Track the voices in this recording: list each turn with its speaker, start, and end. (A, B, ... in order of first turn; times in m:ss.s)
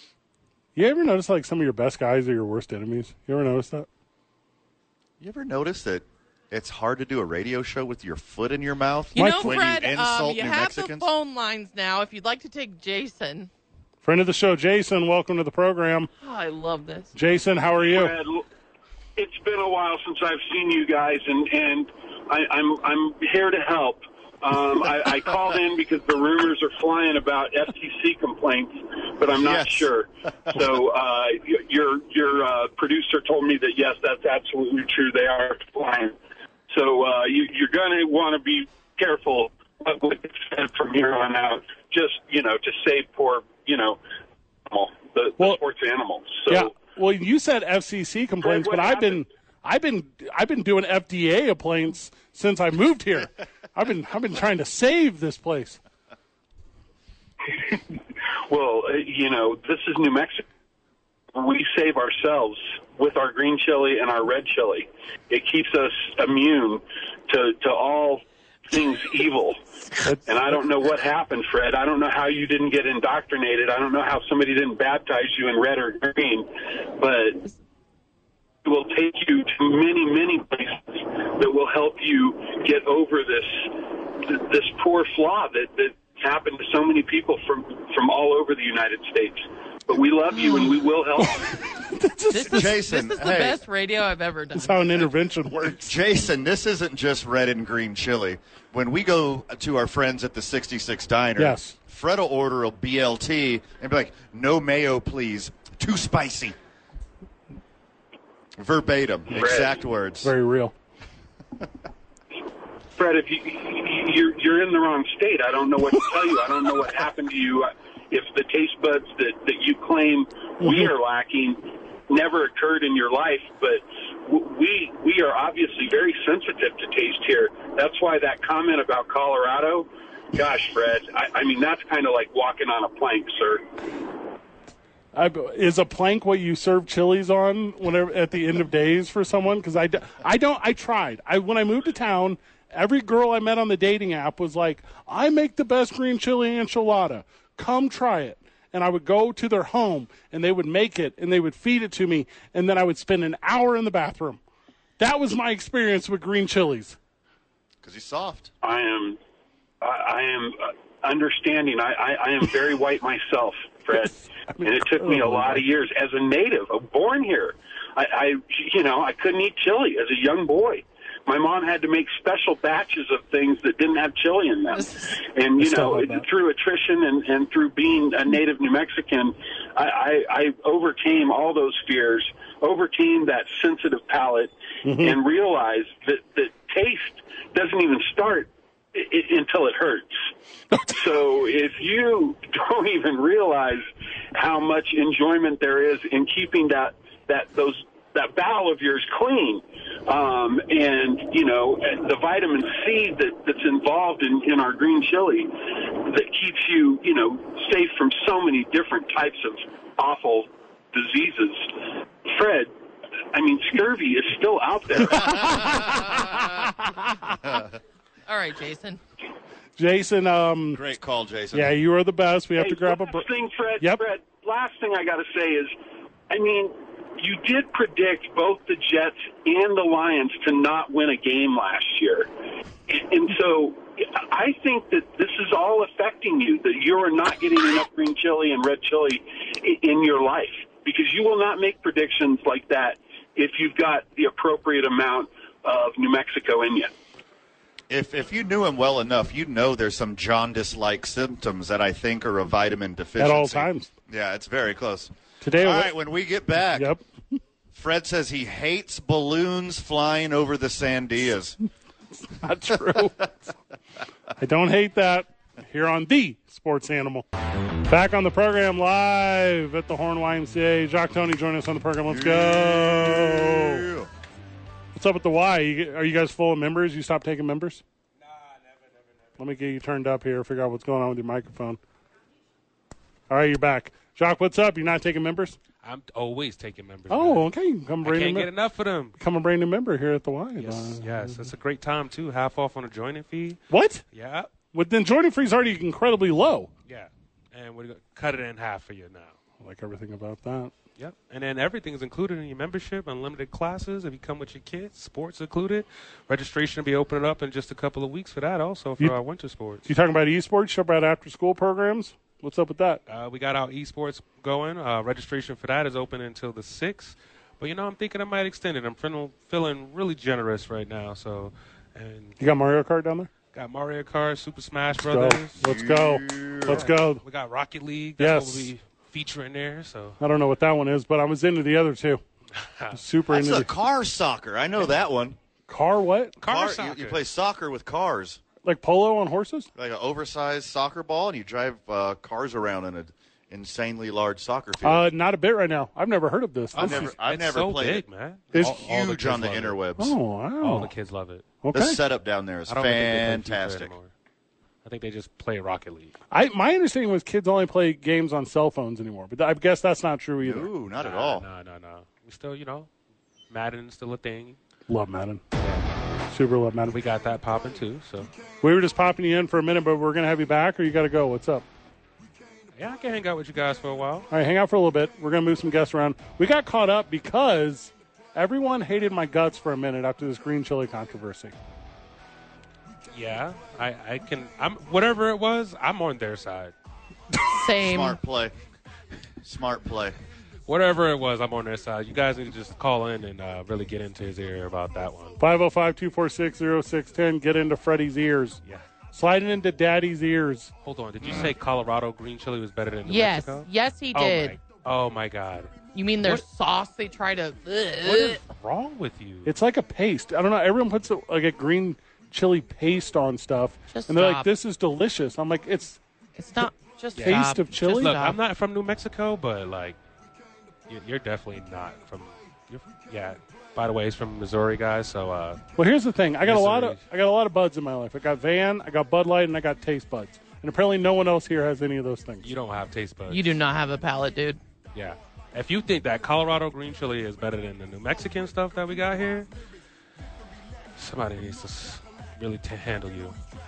0:00.8-0:03.9 A
0:05.2-0:11.1 B
0:09.2-0:13.5 C
0:09.2-0:09.6 A
0:14.0-0:16.1 A
0:16.2-0:17.1 C
0:17.1-0:18.1 A
0:17.8-0:18.5 D
0:19.2-0:36.2 D
0:29.4-0:29.9 B
0:36.7-0:44.0 D
0:44.7-0:46.8 D
0:46.5-0:55.8 A
0:48.4-0:49.2 D
0:57.6-0:57.8 D
0:58.5-1:00.4 D
1:01.3-1:09.6 D
1:10.2-1:17.4 D
1:18.6-1:31.5 D
1:31.2-1:32.7 A
1:32.3-1:35.1 C
1:32.5-1:33.6 B
1:34.6-1:36.0 A
1:35.6-1:46.6 B
1:41.4-1:41.8 A
1:48.6-1:50.3 B
1:49.4-1:49.8 D
1:50.2-1:50.7 A
1:52.9-2:13.7 D
2:00.6-2:00.9 A
2:15.2-2:34.4 A
2:35.0-2:37.0 A
2:37.8-2:38.5 B
2:38.6-2:39.2 D
2:39.8-3:10.3 D
2:44.6-2:45.6 A
2:55.6-2:56.3 A
3:04.8-3:05.2 A
3:10.9-3:32.7 D
3:33.3-3:36.1 D
3:35.0-3:36.7 A
3:38.3-3:39.0 C
3:39.8-3:40.8 A
3:40.7-3:41.7 B
3:41.5-3:43.3 A
3:42.6-3:45.8 D
3:46.3-3:52.3 D
3:52.9-4:06.9 D
4:07.9-4:17.0 B
4:13.2-4:13.9 A
4:15.4-4:15.9 A
4:16.7-4:17.0 A
4:17.7-4:21.6 B
4:22.2-4:23.5 A
4:24.4-4:27.2 A
4:27.8-4:33.8 A
4:32.1-4:34.1 B
4:35.0-4:37.8 A
4:39.4-4:41.8 A
4:43.3-4:45.6 A
4:45.8-4:47.5 E
4:47.1-4:48.5 A
4:48.0-4:49.2 E
4:49.2-4:51.4 A
4:50.6-4:54.5 E
4:53.7-4:54.0 A
4:54.7-4:56.7 A
4:56.9-4:59.4 E
4:59.6-5:00.7 A
5:01.0-5:09.9 E
5:09.8-5:13.0 A
5:13.1-5:22.4 E
5:22.4-5:23.3 A
5:23.5-5:25.6 E
5:25.0-5:27.2 A
5:25.6-5:26.9 B
5:26.7-5:30.2 E
5:28.2-5:28.7 A
5:30.2-5:32.2 A
5:32.6-5:33.0 E
5:32.9-5:33.7 A
5:33.3-5:35.4 B
5:35.7-5:36.4 A
5:36.4-5:37.2 E
5:36.4-5:38.4 B
5:38.6-5:39.7 A
5:39.8-5:45.1 B
5:44.8-5:47.2 A
5:46.7-5:49.8 E
5:46.7-5:50.2 B
5:48.6-5:48.8 A
5:50.0-5:50.9 A
5:50.6-5:51.5 E
5:51.6-5:52.0 A
5:51.7-5:54.0 B
5:52.7-5:54.1 E
5:54.8-5:56.1 E
5:56.3-6:00.7 A
6:00.4-6:01.4 B
6:01.0-6:02.9 E
6:03.5-6:04.6 E
6:04.9-6:05.4 A
6:05.6-6:05.8 E
6:06.3-6:07.0 A
6:06.9-6:08.3 E
6:08.6-6:11.7 A
6:12.7-6:14.3 E
6:14.3-6:21.6 A
6:23.1-6:26.7 E
6:27.5-6:28.2 C
6:27.8-6:28.5 B
6:29.4-6:30.2 B
6:30.7-6:35.4 E
6:35.4-6:38.6 A
6:39.1-6:40.7 A
6:40.8-6:46.4 E
6:43.1-6:44.6 C
6:45.9-6:48.4 C
6:48.0-6:49.6 E
6:49.4-6:56.0 A
6:53.9-6:54.5 C
6:56.4-6:58.4 C
6:57.2-7:00.0 E
6:57.2-6:58.2 A
7:00.9-7:05.6 E
7:05.8-7:12.5 A
7:06.4-7:07.0 E
7:12.4-7:13.6 E
7:13.3-7:14.6 C
7:14.9-7:19.5 E
7:21.0-7:23.4 E